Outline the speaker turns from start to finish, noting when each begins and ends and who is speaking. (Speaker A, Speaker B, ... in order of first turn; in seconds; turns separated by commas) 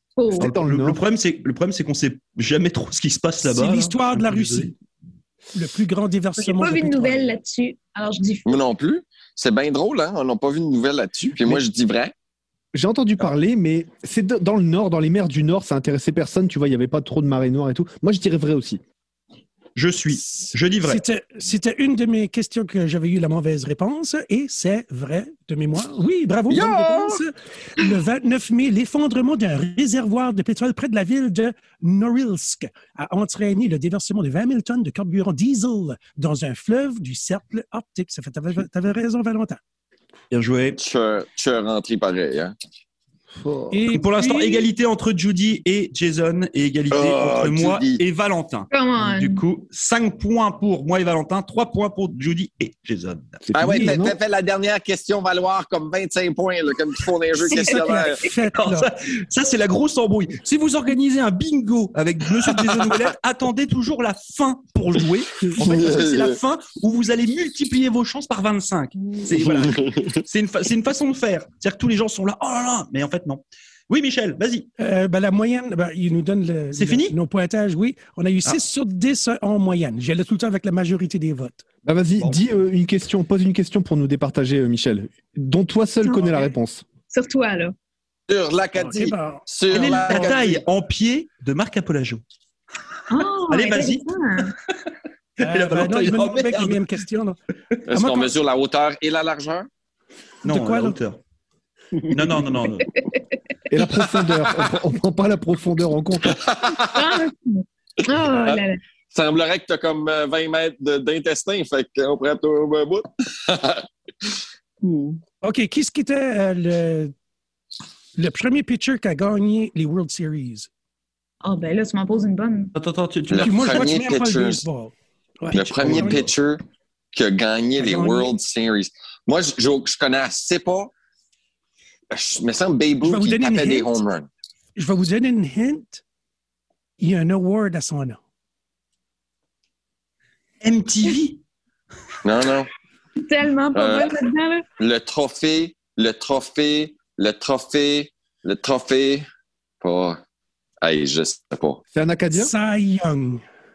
Speaker A: 0.2-0.5, Speaker B: 0.4-1.0, Speaker C: 0.4-4.7, Speaker D: 3.4-4.7, Speaker D: 5.5-7.3, Speaker A: 6.4-8.6, Speaker E: 8.4-12.1, Speaker B: 11.3-11.6, Speaker B: 12.7-18.8, Speaker C: 19.8-21.0, Speaker D: 20.4-39.6, Speaker E: 26.5-27.2, Speaker C: 40.3-40.8, Speaker E: 40.8-42.5, Speaker B: 43.4-43.8, Speaker D: 43.7-44.7, Speaker C: 43.9-53.4, Speaker E: 46.9-48.0, Speaker A: 48.7-49.4, Speaker B: 53.4-54.2, Speaker E: 53.5-58.2, Speaker A: 57.5-57.9, Speaker D: 57.7-58.9, Speaker C: 58.3-74.7, Speaker E: 65.5-66.4, Speaker E: 69.5-70.1, Speaker D: 74.8-81.6, Speaker C: 76.7-77.1, Speaker B: 81.8-86.8, Speaker C: 82.2-82.4, Speaker A: 86.0-86.5, Speaker A: 87.1-87.7, Speaker E: 88.3-90.6, Speaker D: 88.7-90.3, Speaker C: 89.7-92.2, Speaker A: 93.1-94.5, Speaker C: 93.5-94.5, Speaker C: 95.4-96.8, Speaker D: 95.4-97.4, Speaker E: 97.8-99.7, Speaker D: 97.9-98.3, Speaker D: 100.4-101.0, Speaker C: 100.4-101.2, Speaker C: 102.1-102.9, Speaker A: 102.8-103.2, Speaker B: 103.7-106.5, Speaker E: 106.3-107.2, Speaker A: 106.9-108.8, Speaker E: 108.2-115.1, Speaker D: 115.4-117.1, Speaker D: 118.2-120.7, Speaker A: 121.4-122.7, Speaker C: 122.7-123.9, Speaker E: 123.3-124.6, Speaker D: 123.4-126.3, Speaker E: 125.5-126.6, Speaker C: 125.8-126.2, Speaker E: 127.1-130.9, Speaker D: 127.8-128.3, Speaker E: 132.1-134.3, Speaker D: 133.0-134.0, Speaker D: 134.8-136.0, Speaker D: 137.0-138.2, Speaker C: 140.6-141.4, Speaker E: 142.2-142.7, Speaker A: 143.2-144.7, Speaker E: 143.7-144.2, Speaker E: 144.8-149.2, Speaker E: 149.8-150.2, Speaker E: 150.8-151.8, Speaker B: 151.9-152.5, Speaker D: 152.3-153.4